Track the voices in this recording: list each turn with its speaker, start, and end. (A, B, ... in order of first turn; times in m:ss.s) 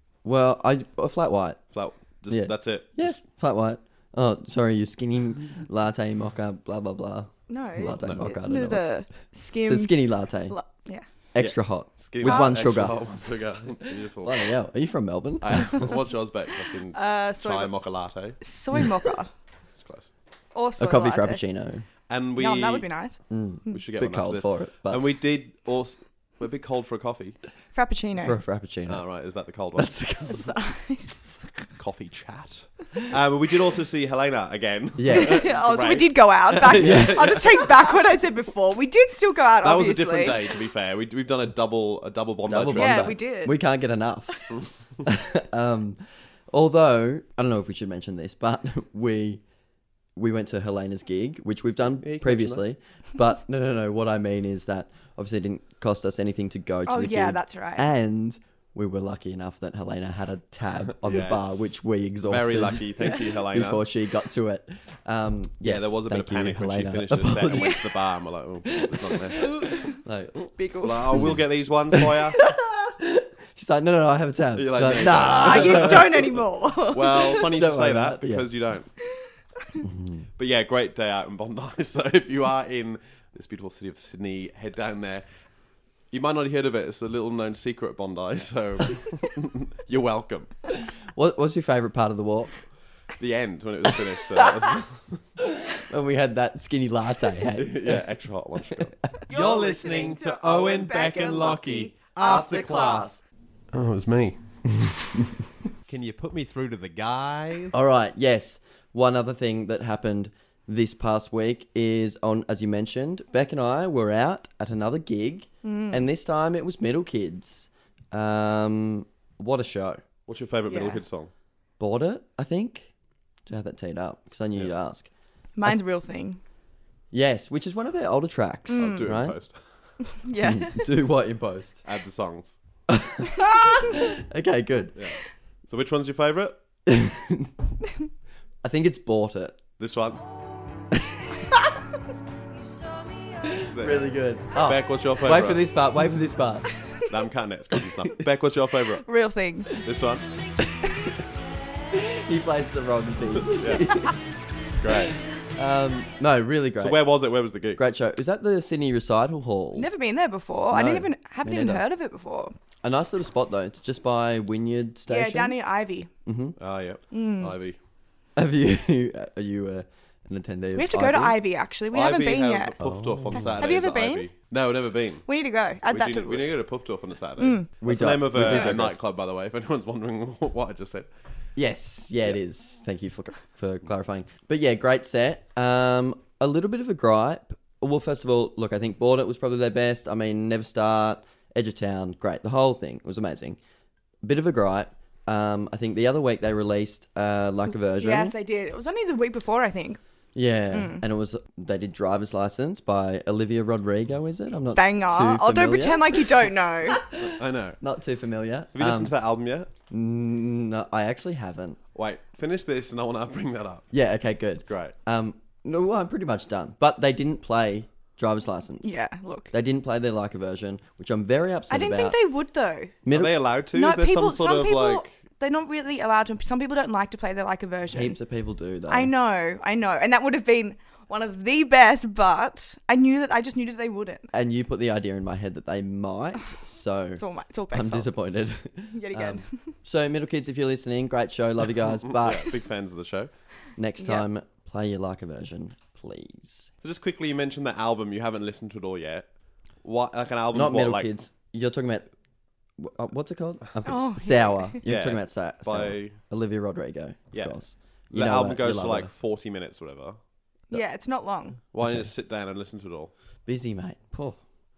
0:00.2-0:01.6 A
0:01.7-0:03.2 B
0:02.3-0:08.8 A
0:07.5-0:11.0 C
0:08.0-0:08.2 B
0:09.6-0:10.6 A
0:11.3-0:13.0 A
0:11.4-0:14.5 B
0:12.2-0:12.5 C
0:13.8-0:16.0 A
0:15.4-0:18.4 B
0:16.9-0:17.7 C
0:18.4-0:19.3 C
0:19.8-0:20.1 B
0:20.5-0:21.4 C
0:20.8-0:21.8 A
0:22.1-0:22.8 B
0:22.4-0:23.2 C
0:23.3-0:25.1 A
0:23.7-0:27.4 B
0:27.7-0:28.4 C
0:28.2-0:29.0 A
0:28.9-0:30.0 B
0:29.8-0:30.5 A
0:30.3-0:31.6 C
0:31.8-0:37.8 B
0:35.0-0:35.5 A
0:35.1-0:40.4 C
0:36.7-0:37.3 A
0:39.6-0:43.1 B
0:42.5-0:44.5 A
0:42.7-0:43.6 C
0:44.3-0:44.6 C
0:45.0-0:49.4 A
0:50.2-1:07.8 A
0:52.0-0:52.6 B
0:56.9-0:57.9 C
1:01.0-1:01.7 B
1:02.3-1:03.8 B
1:05.6-1:09.5 B
1:07.5-1:07.9 C
1:08.7-1:16.3 A
1:09.4-1:09.9 C
1:10.8-1:12.4 B
1:14.5-1:16.4 B
1:15.2-1:17.4 C
1:16.9-1:18.9 B
1:17.3-1:18.5 A
1:19.8-1:20.2 A
1:20.4-1:25.2 B
1:26.1-1:30.5 B
1:31.0-1:32.6 A
1:33.2-1:35.2 B
1:34.1-1:34.7 A
1:35.4-1:38.0 A
1:37.5-1:43.2 B
1:39.3-1:42.0 C
1:42.2-1:43.2 A
1:43.7-1:45.2 B
1:45.8-1:47.8 B
1:47.7-2:00.0 A
1:55.6-1:56.1 C
2:00.3-2:01.3 B
2:00.7-2:01.0 C
2:01.8-2:02.9 A
2:03.5-2:05.1 A
2:05.6-2:06.4 C
2:07.1-2:09.4 A
2:08.7-2:09.1 C
2:08.8-2:09.6 B
2:10.0-2:10.9 C
2:10.3-2:11.8 A
2:11.8-2:12.5 B
2:12.9-2:15.0 A
2:15.0-2:16.6 B
2:16.8-2:17.5 A
2:18.6-2:19.6 A
2:19.8-2:20.2 B
2:23.4-2:26.7 A
2:23.6-2:25.6 B
2:27.0-2:29.0 B
2:29.0-2:29.7 C
2:29.8-2:30.3 B
2:30.6-2:30.9 A
2:31.9-2:34.2 A
2:33.5-2:34.0 B
2:34.8-2:35.2 B
2:34.8-2:37.1 A
2:36.8-2:37.8 B
2:37.8-2:39.9 A
2:39.8-2:42.5 C
2:40.7-2:41.8 A
2:42.8-2:45.6 A
2:45.1-2:46.1 C
2:46.2-2:46.6 A
2:46.6-2:47.8 B
2:47.1-2:47.5 C
2:48.4-2:51.4 A
2:50.7-2:52.7 C
2:51.9-2:55.3 B
2:52.8-2:53.6 A
2:53.3-2:54.3 C
2:55.3-2:56.6 C
2:55.9-3:01.1 B
2:57.4-2:57.7 C
2:57.8-2:59.0 A
2:58.4-2:58.7 C
3:01.6-3:13.6 A
3:14.2-3:18.3 A
3:18.0-3:20.0 C
3:20.3-3:29.1 A
3:20.7-3:21.0 C
3:24.7-3:27.0 C
3:27.2-3:27.8 B
3:28.7-3:29.7 B
3:29.9-3:31.8 A
3:31.9-3:33.9 B
3:33.9-3:39.0 A
3:34.7-3:34.9 B
3:38.8-3:39.5 C
3:39.5-3:42.2 A
3:41.7-3:42.9 C
3:43.0-3:43.4 A
3:43.1-3:45.1 B
3:43.7-3:48.2 C
3:47.9-3:49.1 A
3:48.9-3:54.3 C
3:54.3-4:02.5 A
3:57.2-3:58.1 C
3:58.9-3:59.8 C
4:02.0-4:03.3 B
4:03.8-4:06.7 A
4:04.0-4:04.2 C
4:06.8-4:09.2 B
4:09.8-4:11.1 B
4:10.5-4:12.1 A
4:12.8-4:19.1 A
4:13.8-4:14.8 C
4:14.8-4:16.2 B
4:17.3-4:17.6 B
4:18.1-4:20.2 B
4:20.7-4:21.6 C
4:21.7-4:23.1 B
4:21.8-4:22.1 A
4:23.4-4:24.4 A